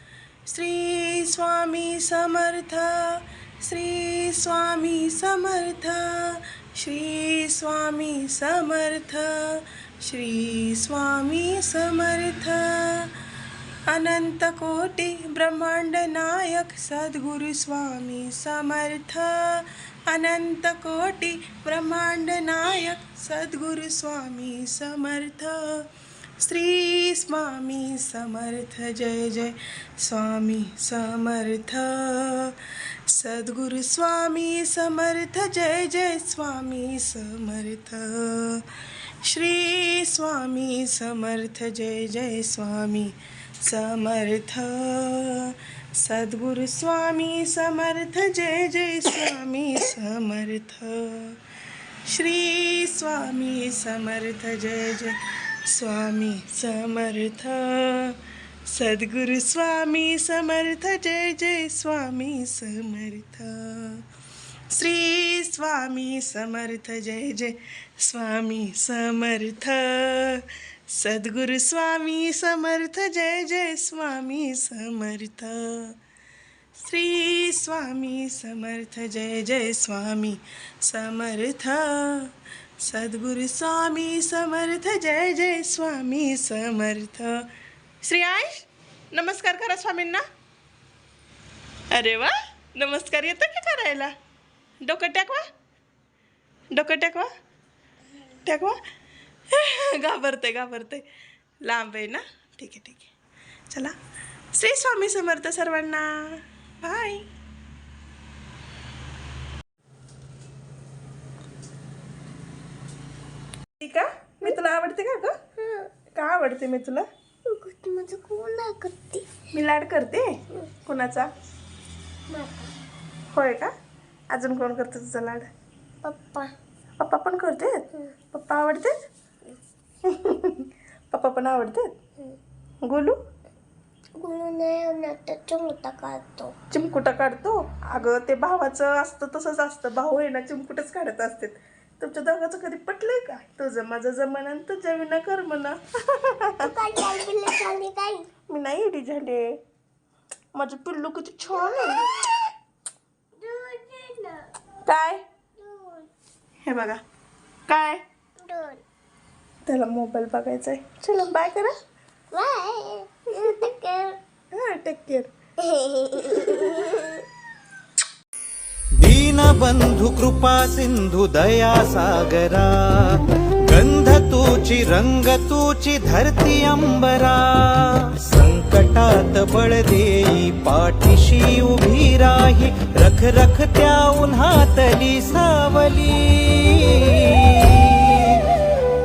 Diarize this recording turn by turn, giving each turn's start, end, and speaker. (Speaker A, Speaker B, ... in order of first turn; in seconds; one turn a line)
Speaker A: 0.5-13.1
Speaker A: 13.9-25.9
Speaker A: 26.4-38.6
Speaker A: 39.2-51.4
Speaker A: 52.0-64.0
Speaker A: 64.7-75.9
Speaker A: 76.7-87.5
Speaker A: 88.0-90.2
Speaker A: 91.9-94.1
Speaker A: 94.8-95.4
Speaker A: 96.7-97.3
Speaker A: 98.4-98.8
Speaker A: 99.5-101.0
Speaker A: 101.6-103.1
Speaker A: 103.7-103.9
Speaker A: 104.5-107.2
Speaker A: 113.8-115.3
Speaker B: 115.6-115.9
Speaker A: 116.1-117.0
Speaker B: 117.5-119.2
Speaker A: 119.5-120.3
Speaker A: 120.8-121.3
Speaker B: 122.3-122.7
Speaker A: 123.3-123.7
Speaker A: 124.3-125.5
Speaker B: 126.0-126.5
Speaker A: 127.0-128.9
Speaker A: 130.0-131.9
Speaker A: 132.8-133.2
Speaker B: 134.2-136.5
Speaker A: 136.7-146.7
Speaker B: 146.6-148.3
Speaker A: 148.5-149.6
Speaker A: 150.5-152.1
Speaker B: 151.6-152.2
Speaker B: 153.4-154.5
Speaker A: 154.8-155.2
Speaker B: 155.6-156.1
Speaker A: 156.6-157.0
Speaker A: 157.7-158.0
Speaker B: 158.4-158.8
Speaker A: 159.7-161.7
Speaker B: 162.3-164.2
Speaker A: 164.5-165.3
Speaker B: 165.6-167.2
Speaker C: 169.0-188.4